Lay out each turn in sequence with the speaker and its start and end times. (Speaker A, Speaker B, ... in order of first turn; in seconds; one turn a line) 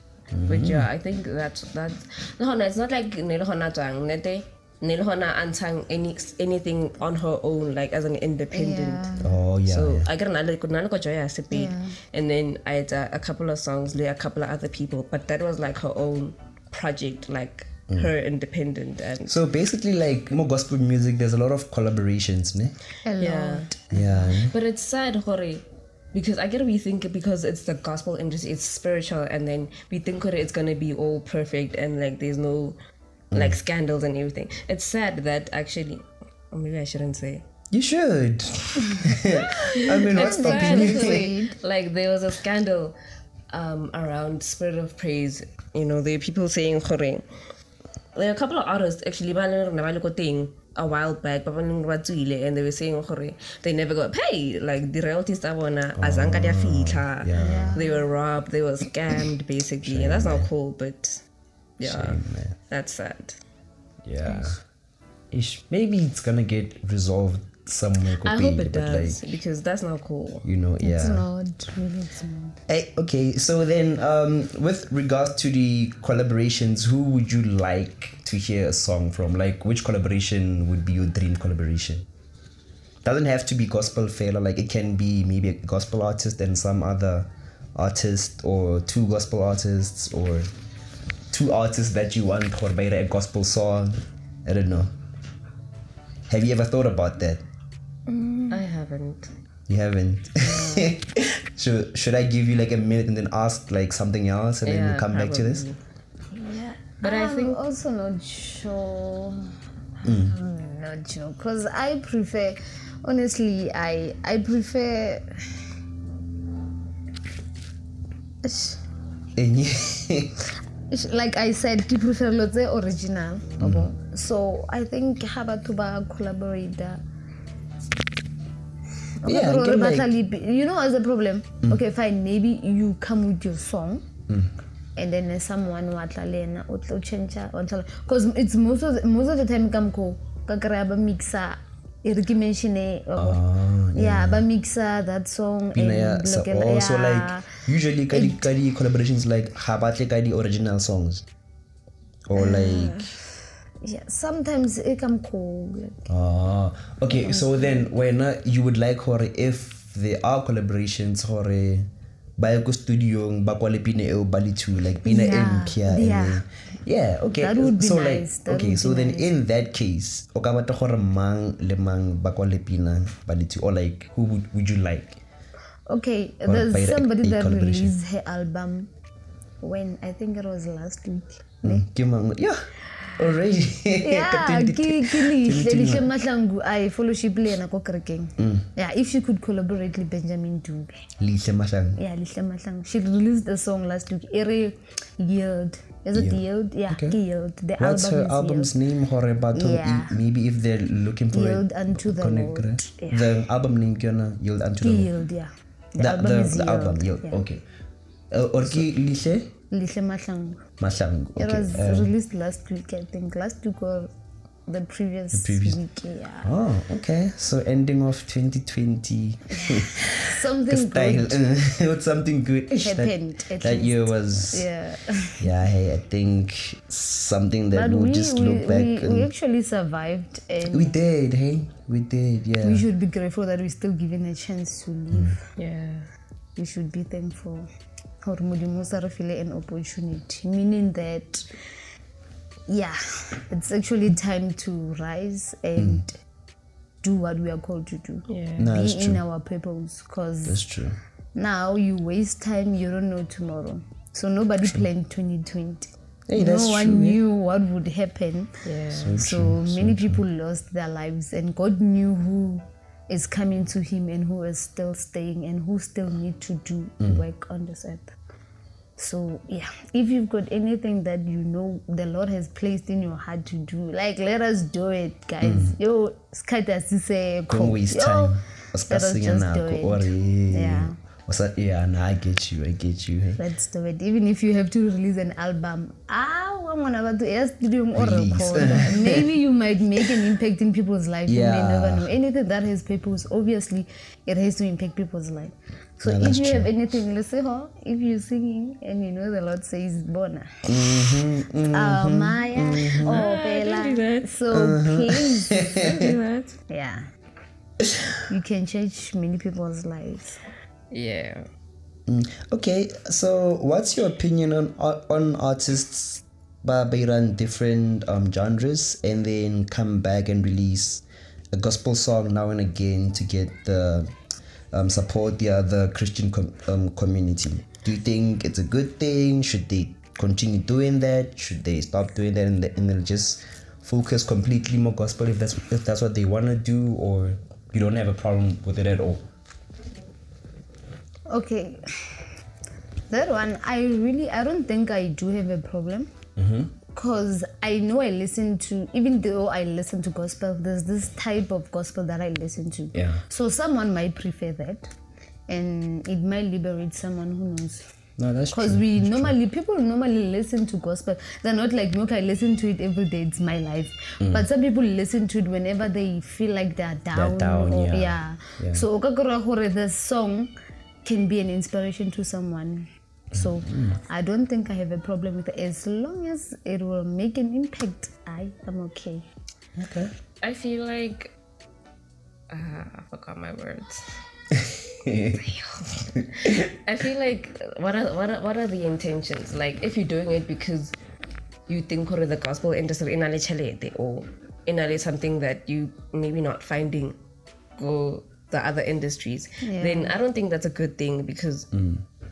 Speaker A: 0.3-0.9
Speaker B: 0.5-19.4
Speaker C: 8.5-9.4
Speaker A: 9.2-10.1
Speaker C: 11.5-12.0
Speaker A: 19.3-22.8
Speaker C: 23.1-24.4
Speaker B: 23.2-23.7
Speaker A: 23.9-24.5
Speaker B: 24.5-32.8
Speaker B: 33.3-37.5
Speaker A: 37.7-41.3
Speaker C: 38.8-39.2
Speaker B: 39.7-43.0
Speaker C: 39.7-41.5
Speaker B: 43.5-47.2
Speaker B: 48.2-61.2
Speaker A: 56.0-57.8
Speaker C: 57.4-58.0
Speaker A: 59.8-60.5
Speaker B: 61.8-63.4
Speaker A: 61.8-62.5
Speaker A: 64.0-64.6
Speaker C: 64.3-64.6
Speaker A: 65.3-69.2
Speaker B: 68.2-70.5
Speaker A: 70.4-71.2
Speaker C: 70.8-72.6
Speaker A: 72.7-82.1
Speaker A: 83.0-90.5
Speaker A: 91.3-94.9
Speaker A: 96.3-97.4
Speaker C: 98.1-98.6
Speaker B: 98.5-99.3
Speaker A: 99.7-105.7
Speaker B: 100.4-100.9
Speaker B: 104.6-105.8
Speaker C: 106.3-115.3
Speaker B: 107.0-107.6
Speaker A: 110.0-110.3
Speaker C: 118.4-118.8
Speaker A: 119.4-120.4
Speaker C: 120.9-127.0
Speaker A: 123.6-123.9
Speaker C: 129.2-134.0
Speaker A: 129.3-130.1
Speaker C: 135.0-143.4
Speaker A: 143.2-144.4
Speaker C: 143.9-147.6
Speaker A: 145.8-151.2
Speaker C: 148.1-148.5
Speaker A: 152.3-153.2
Speaker C: 152.3-153.2
Speaker C: 153.8-156.1
Speaker A: 156.1-175.2
Speaker C: 157.2-157.9
Speaker C: 165.0-166.4
Speaker C: 167.3-169.3
Speaker C: 175.9-178.9
Speaker A: 176.4-177.9
Speaker C: 179.6-181.8
Speaker A: 181.6-182.6
Speaker A: 183.2-186.1
Speaker C: 184.0-191.1
Speaker A: 188.4-188.7
Speaker A: 191.2-192.0
Speaker C: 192.0-198.8
Speaker A: 196.2-197.2
Speaker A: 197.8-205.1
Speaker C: 199.5-200.2
Speaker C: 201.3-203.3
Speaker C: 204.8-207.4
Speaker A: 206.0-207.6
Speaker A: 208.3-209.5
Speaker C: 209.7-210.6
Speaker A: 210.8-212.1
Speaker C: 211.4-214.1
Speaker C: 214.7-216.6
Speaker A: 215.3-215.8
Speaker A: 216.4-224.7
Speaker C: 219.6-221.4
Speaker C: 222.8-225.5
Speaker A: 225.4-229.3
Speaker C: 227.7-230.9
Speaker A: 230.7-232.8
Speaker C: 232.6-235.4
Speaker B: 235.6-236.1
Speaker C: 236.6-237.7
Speaker C: 238.2-241.4
Speaker C: 242.7-246.2
Speaker A: 245.8-246.0
Speaker C: 247.0-250.7
Speaker B: 248.3-248.7
Speaker A: 248.6-249.2
Speaker A: 250.5-251.0
Speaker C: 251.3-258.6
Speaker A: 256.3-257.2
Speaker B: 258.6-259.2
Speaker A: 258.9-260.2
Speaker C: 259.1-268.2
Speaker C: 269.0-278.4
Speaker A: 275.4-275.8
Speaker A: 277.5-283.4
Speaker C: 278.9-281.0
Speaker C: 283.4-301.0
Speaker A: 287.9-289.3
Speaker A: 291.3-292.1
Speaker A: 296.1-296.7
Speaker A: 300.7-303.1
Speaker C: 301.7-305.8
Speaker B: 303.0-304.4
Speaker A: 304.5-306.1
Speaker B: 305.8-306.6
Speaker C: 306.7-307.0
Speaker C: 308.3-310.4
Speaker B: 310.9-311.5
Speaker A: 312.1-324.1
Speaker A: 324.7-339.2
Speaker C: 341.3-342.3
Speaker C: 343.1-346.1
Speaker A: 346.4-346.7
Speaker C: 346.9-354.9
Speaker A: 352.9-353.2
Speaker C: 355.5-357.9
Speaker A: 358.2-359.3
Speaker C: 358.5-370.5
Speaker A: 367.1-368.8
Speaker C: 371.1-379.3
Speaker A: 373.3-374.0
Speaker A: 379.8-380.1
Speaker B: 380.4-381.3
Speaker B: 382.5-384.1
Speaker A: 384.5-385.4
Speaker B: 385.3-390.9
Speaker A: 386.1-386.7
Speaker B: 391.7-397.2
Speaker B: 397.8-401.7
Speaker C: 399.6-400.2
Speaker A: 401.7-402.0